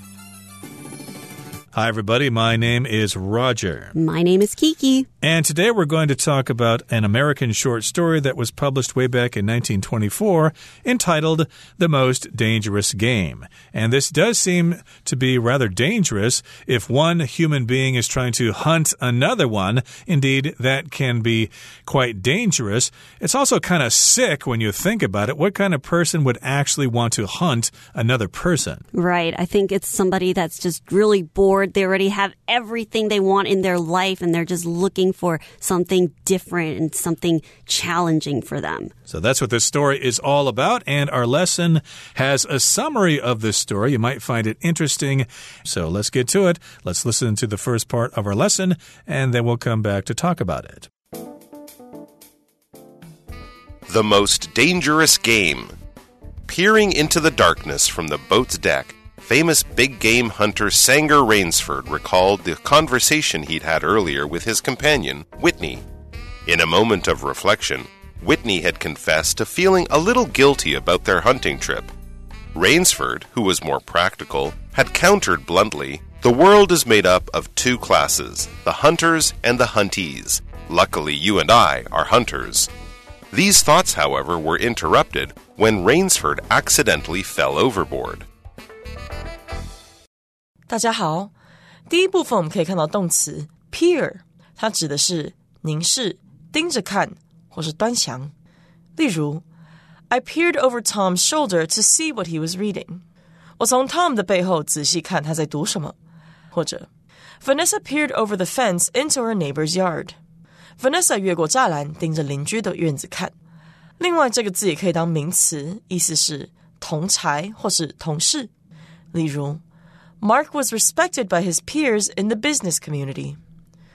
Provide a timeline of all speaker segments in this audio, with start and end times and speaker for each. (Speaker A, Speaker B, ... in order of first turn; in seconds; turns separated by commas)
Speaker A: 1.7-3.9, Speaker B: 3.9-5.1, Speaker A: 5.2-28.8, Speaker B: 28.9-38.9, Speaker A: 39.1-50.9, Speaker C: 53.9-55.7, Speaker C: 56.5-65.8, Speaker C: 66.5-71.9, Speaker C: 72.5-82.7, Speaker C: 83.3-88.2, Speaker D: 90.7-91.3, Speaker D: 91.9-98.3, Speaker D: 99.0-99.4, Speaker D: 100.1-103.0, Speaker D: 103.6-105.9, Speaker D: 106.5-106.9, Speaker D: 107.4-110.2, Speaker D: 110.8-113.3, Speaker D: 114.0-118.5, Speaker D: 119.1-119.6, Speaker D: 120.2-123.4